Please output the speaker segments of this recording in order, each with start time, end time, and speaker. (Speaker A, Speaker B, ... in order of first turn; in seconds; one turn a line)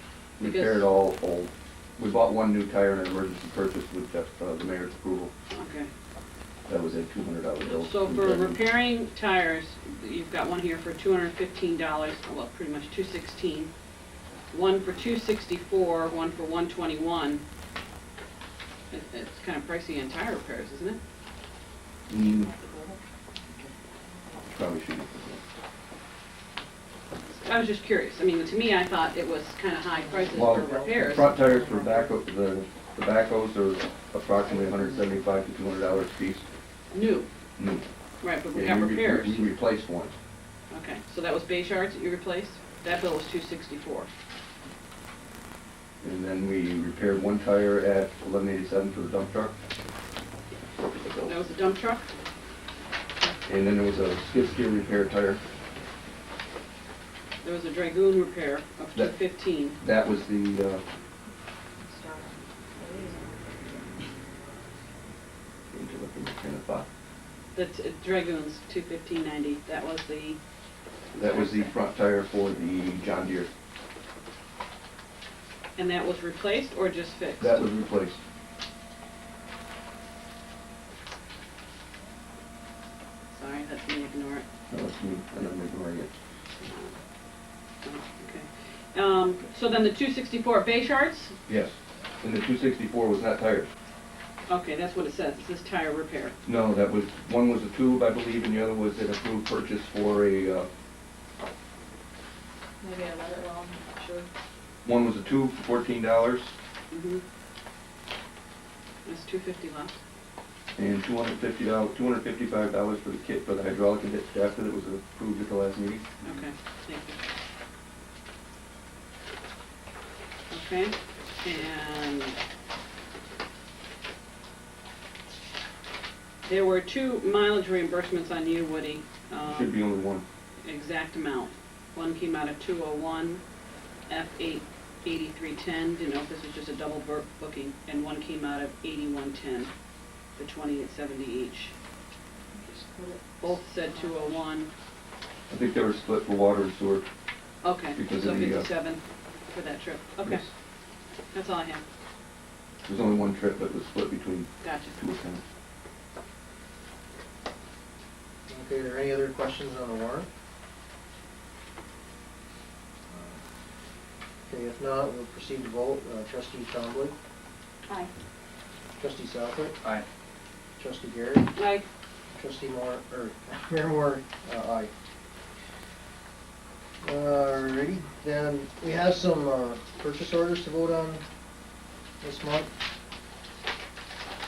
Speaker A: 0.4-5.3
Speaker B: 0.4-0.8
Speaker B: 5.5-5.9
Speaker A: 6.7-8.6
Speaker B: 7.6-13.7
Speaker B: 14.5-17.4
Speaker B: 18.9-21.0
Speaker A: 22.1-22.5
Speaker C: 22.3-23.0
Speaker A: 24.5-25.4
Speaker B: 27.3-31.4
Speaker A: 30.3-36.5
Speaker C: 31.4-32.0
Speaker B: 36.9-37.3
Speaker A: 37.6-37.8
Speaker B: 38.2-39.5
Speaker A: 38.5-40.1
Speaker B: 40.7-44.1
Speaker A: 46.0-49.5
Speaker A: 50.9-51.3
Speaker B: 51.3-52.1
Speaker A: 53.5-55.4
Speaker B: 57.4-59.8
Speaker A: 59.8-60.8
Speaker C: 61.8-64.5
Speaker A: 65.7-66.9
Speaker B: 67.5-70.4
Speaker A: 71.1-73.5
Speaker B: 71.2-71.7
Speaker B: 75.8-77.7
Speaker A: 77.4-78.2
Speaker B: 83.3-84.5
Speaker A: 84.7-86.1
Speaker B: 86.6-87.0
Speaker B: 87.8-91.3
Speaker A: 91.5-93.7
Speaker B: 94.5-96.4
Speaker A: 96.5-100.7
Speaker C: 102.8-104.3
Speaker A: 104.8-106.5
Speaker B: 106.9-107.2
Speaker B: 109.0-110.0
Speaker A: 110.8-116.1
Speaker B: 116.2-117.2
Speaker B: 120.5-122.4
Speaker B: 126.5-129.8
Speaker A: 129.4-130.2
Speaker B: 130.7-133.4
Speaker B: 134.1-139.7
Speaker B: 140.4-141.7
Speaker C: 142.5-144.4
Speaker B: 143.4-144.7
Speaker A: 145.5-147.1
Speaker B: 147.6-149.0
Speaker A: 147.9-148.7
Speaker B: 149.5-150.5
Speaker B: 151.3-151.8
Speaker A: 152.8-155.4
Speaker B: 154.6-155.0
Speaker D: 158.5-160.3
Speaker D: 163.1-163.4
Speaker D: 164.5-167.2
Speaker D: 169.0-169.8
Speaker D: 170.8-171.5
Speaker B: 171.6-171.8
Speaker D: 172.3-174.9
Speaker D: 177.0-181.2
Speaker D: 182.2-182.7